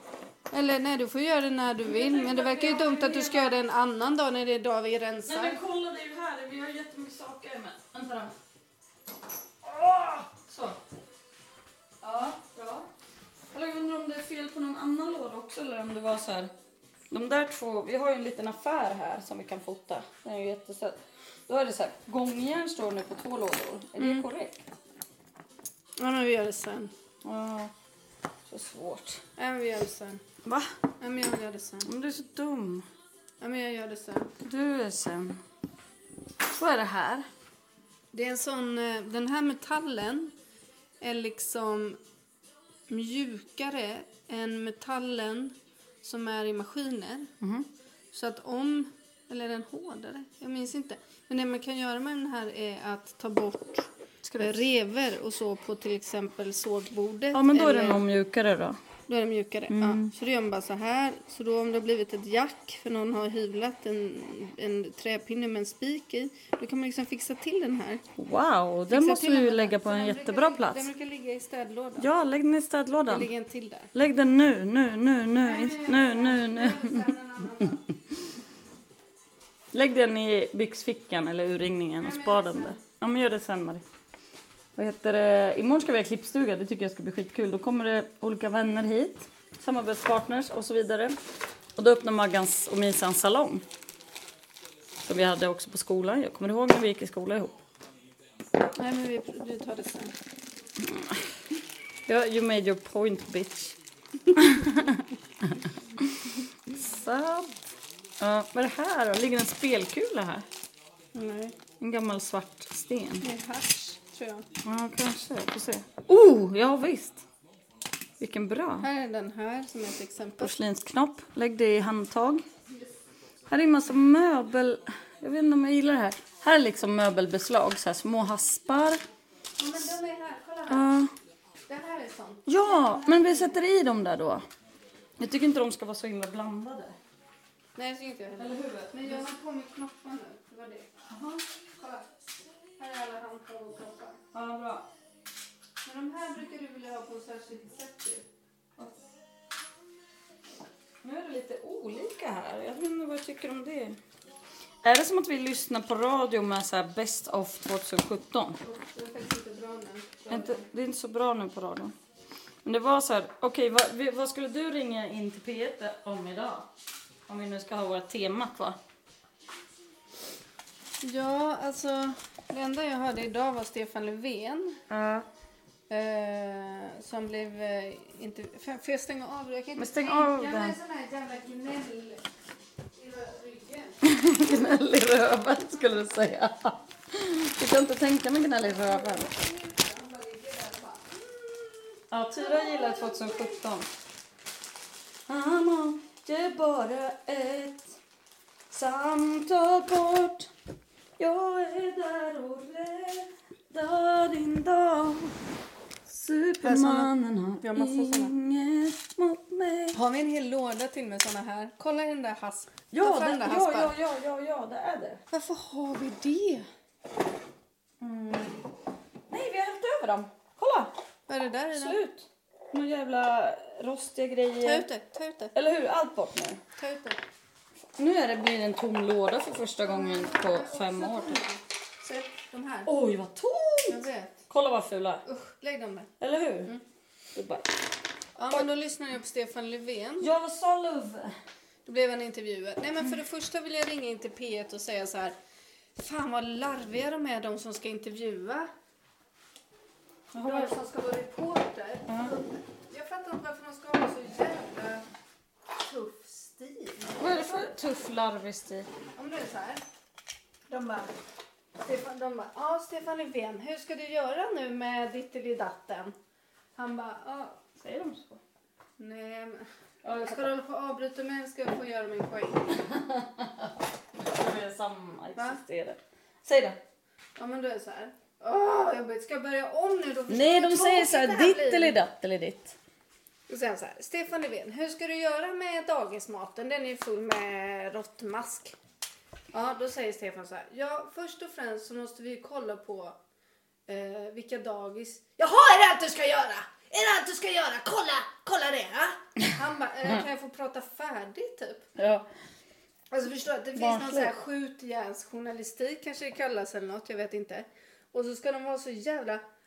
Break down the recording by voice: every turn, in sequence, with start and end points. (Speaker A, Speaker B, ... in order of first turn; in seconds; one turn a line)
Speaker A: 0.5-5.6
Speaker B: 1.8-3.6
Speaker B: 5.3-8.3
Speaker B: 9.6-10.8
Speaker B: 12.0-12.9
Speaker B: 13.5-16.5
Speaker B: 17.1-24.6
Speaker A: 24.0-24.3
Speaker A: 26.0-26.9
Speaker B: 27.2-27.7
Speaker B: 28.5-29.2
Speaker A: 29.4-30.2
Speaker B: 30.4-30.7
Speaker A: 31.0-31.9
Speaker B: 31.8-32.9
Speaker A: 33.4-34.3
Speaker B: 34.4-35.4
Speaker B: 36.5-37.3
Speaker A: 38.1-40.3
Speaker A: 41.0-42.0
Speaker A: 42.9-47.3
Speaker B: 47.4-47.7
Speaker A: 48.1-58.0
Speaker B: 54.2-54.6
Speaker B: 57.3-58.8
Speaker A: 59.1-68.0
Speaker B: 59.7-60.1
Speaker B: 68.1-70.9
Speaker A: 68.9-72.1
Speaker B: 72.0-73.3
Speaker A: 73.1-73.9
Speaker B: 73.9-77.2
Speaker A: 75.4-77.8
Speaker B: 79.7-83.8
Speaker A: 82.0-82.8
Speaker B: 84.8-91.2
Speaker B: 91.8-93.6
Speaker B: 95.0-97.6
Speaker A: 98.6-100.1
Speaker B: 100.8-101.3
Speaker B: 102.0-103.8
Speaker B: 104.3-107.5
Speaker B: 108.2-110.4
Speaker A: 111.1-111.6
Speaker B: 111.8-113.3
Speaker A: 113.2-114.5
Speaker B: 114.6-117.2
Speaker B: 118.2-118.9
Speaker A: 118.8-120.5
Speaker B: 120.4-122.4
Speaker B: 123.5-129.0
Speaker A: 129.6-130.9
Speaker B: 130.7-131.1
Speaker A: 131.7-133.6
Speaker B: 132.4-134.4
Speaker B: 135.2-136.9
Speaker A: 137.8-140.9
Speaker B: 138.4-139.3
Speaker B: 141.1-141.4
Speaker A: 141.8-142.1
Speaker A: 142.8-144.2
Speaker B: 144.3-144.9
Speaker A: 145.8-148.3
Speaker B: 151.0-154.0
Speaker B: 154.8-158.6
Speaker A: 158.6-160.6
Speaker B: 160.3-161.9
Speaker B: 162.6-166.7
Speaker B: 167.3-168.8
Speaker A: 171.0-174.8
Speaker B: 174.9-175.2
Speaker A: 175.9-182.2
Speaker B: 179.8-180.8
Speaker A: 182.9-184.0
Speaker B: 184.0-189.3
Speaker A: 188.6-193.6
Speaker B: 192.1-193.9
Speaker B: 195.3-198.0
Speaker B: 198.7-200.5
Speaker B: 201.2-205.3
Speaker B: 206.1-210.0
Speaker A: 206.6-208.3
Speaker A: 209.9-213.9
Speaker B: 212.9-215.2
Speaker A: 215.3-216.7
Speaker B: 218.0-218.6
Speaker B: 219.3-220.9
Speaker A: 221.3-222.0
Speaker B: 221.7-224.9
Speaker A: 224.6-225.5
Speaker B: 225.5-226.6
Speaker A: 226.8-227.2
Speaker B: 228.0-231.4
Speaker A: 229.8-232.9
Speaker B: 232.8-235.2
Speaker A: 233.9-234.5
Speaker A: 235.2-236.1
Speaker B: 236.2-236.7
Speaker B: 237.3-237.7
Speaker A: 238.3-240.3
Speaker B: 240.2-241.3
Speaker A: 241.8-245.3
Speaker A: 245.9-248.7
Speaker B: 250.3-250.7
Speaker A: 250.4-255.1
Speaker B: 252.1-252.3
Speaker A: 255.8-257.5
Speaker B: 257.1-258.9
Speaker A: 259.1-259.8
Speaker A: 260.7-261.1
Speaker A: 261.8-266.1
Speaker A: 266.7-267.6
Speaker B: 267.8-268.4
Speaker A: 269.0-272.9
Speaker B: 270.0-270.5
Speaker B: 272.8-276.8
Speaker A: 277.4-282.0
Speaker B: 280.3-282.8
Speaker A: 283.5-288.8
Speaker A: 289.5-293.1
Speaker A: 293.9-301.9
Speaker B: 302.0-302.3
Speaker A: 303.1-309.4
Speaker B: 303.7-304.4